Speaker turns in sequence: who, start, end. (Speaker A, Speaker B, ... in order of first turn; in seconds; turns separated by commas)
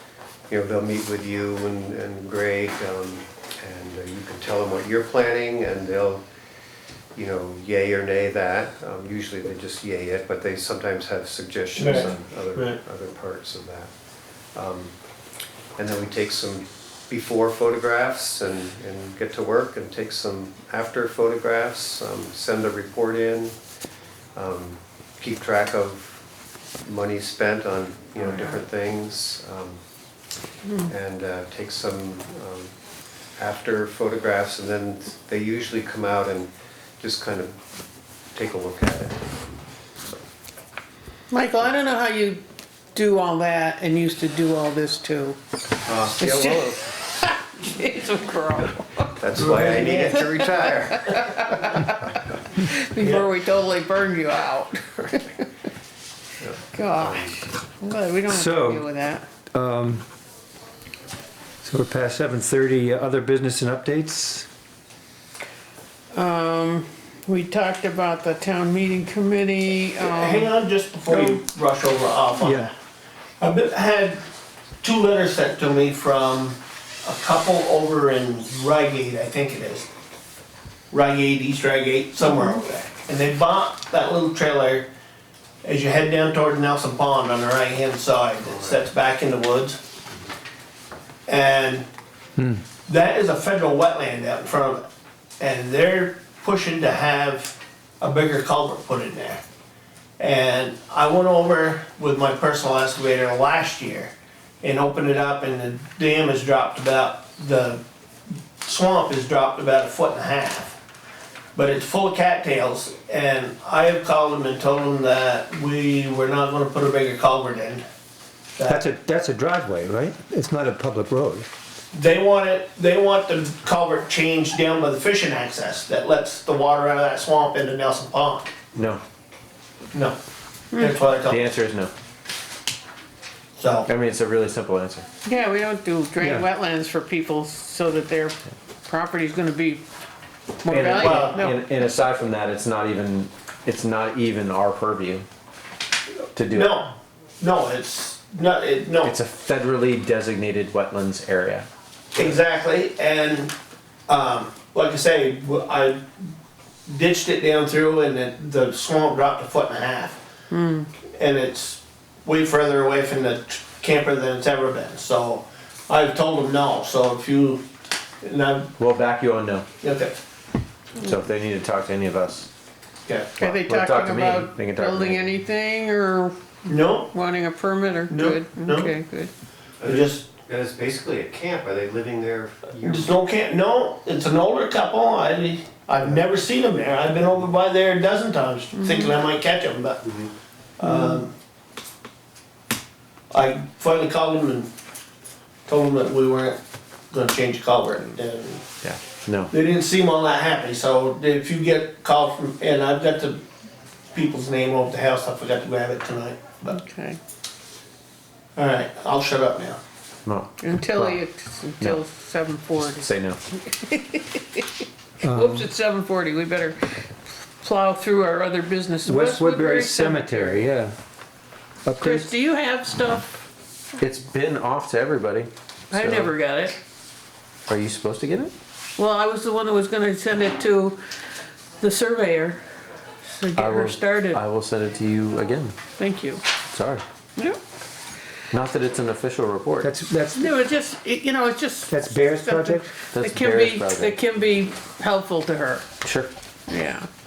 Speaker A: 0.5-6.2, Speaker A: 7.2-13.9, Speaker B: 11.8-12.8, Speaker A: 14.5-14.9, Speaker A: 15.8-23.6, Speaker A: 24.4-26.2, Speaker A: 26.8-29.8, Speaker C: 28.2-28.6, Speaker A: 30.8-32.7, Speaker A: 33.4-37.6, Speaker A: 38.3-39.2, Speaker C: 41.3-45.4, Speaker A: 45.9-46.8, Speaker C: 46.2-49.2, Speaker A: 49.2-51.6, Speaker B: 49.4-50.2, Speaker C: 50.1-55.5, Speaker B: 53.0-53.3, Speaker A: 56.4-57.4, Speaker C: 56.7-59.3, Speaker D: 58.3-58.9, Speaker D: 59.5-60.0, Speaker D: 61.6-64.5, Speaker C: 66.1-70.5, Speaker B: 70.0-72.7, Speaker C: 71.1-71.4, Speaker D: 72.4-72.7, Speaker B: 73.4-74.2, Speaker B: 74.8-79.9, Speaker B: 80.9-84.9, Speaker C: 82.3-82.6, Speaker B: 85.6-89.8, Speaker B: 91.3-91.9, Speaker D: 92.4-92.6, Speaker B: 92.9-94.8, Speaker B: 95.4-99.4, Speaker B: 100.2-107.8, Speaker B: 108.6-110.8, Speaker B: 111.5-117.8, Speaker B: 118.6-118.8, Speaker D: 118.7-121.5, Speaker B: 121.9-128.5, Speaker E: 128.7-129.0, Speaker C: 130.7-131.0, Speaker B: 130.7-131.5, Speaker E: 131.2-131.9, Speaker B: 133.6-133.9, Speaker E: 133.9-135.1, Speaker C: 135.2-139.8, Speaker D: 136.2-136.5, Speaker C: 140.6-141.6, Speaker E: 140.7-145.3, Speaker B: 140.9-141.5, Speaker E: 146.3-146.7, Speaker B: 146.5-149.2, Speaker E: 149.0-152.3, Speaker B: 152.2-153.5, Speaker B: 154.1-156.1, Speaker B: 156.9-160.2, Speaker C: 160.5-160.9, Speaker B: 161.1-167.6, Speaker B: 168.2-168.7, Speaker E: 168.8-169.7, Speaker B: 169.8-170.2, Speaker E: 171.0-172.5, Speaker B: 173.1-173.4, Speaker E: 173.4-175.4, Speaker C: 173.4-176.4, Speaker B: 176.7-177.1, Speaker C: 177.1-179.3, Speaker B: 178.1-178.9, Speaker A: 179.8-183.1, Speaker B: 179.8-180.2, Speaker B: 182.8-190.1, Speaker C: 188.7-189.1, Speaker B: 190.8-191.3, Speaker C: 190.8-191.2, Speaker B: 193.3-194.7, Speaker B: 195.7-196.6, Speaker B: 197.1-198.6, Speaker E: 198.8-199.5, Speaker B: 199.5-203.4, Speaker B: 204.1-206.8, Speaker C: 206.7-207.2, Speaker B: 208.6-209.8, Speaker E: 210.2-211.2, Speaker C: 210.6-220.7, Speaker E: 212.8-213.4, Speaker D: 215.2-215.7, Speaker D: 219.1-220.9, Speaker D: 221.8-222.3, Speaker C: 222.0-223.4, Speaker E: 224.0-226.3, Speaker C: 225.9-226.8, Speaker E: 227.7-228.5, Speaker C: 229.0-231.0, Speaker C: 231.8-232.6, Speaker C: 233.3-234.4, Speaker E: 233.6-235.8, Speaker C: 236.0-236.4, Speaker E: 236.7-237.0, Speaker E: 238.5-240.0, Speaker D: 239.8-240.5, Speaker C: 240.3-245.9, Speaker D: 241.9-242.9, Speaker E: 243.1-244.2, Speaker E: 246.0-246.3, Speaker C: 246.7-247.1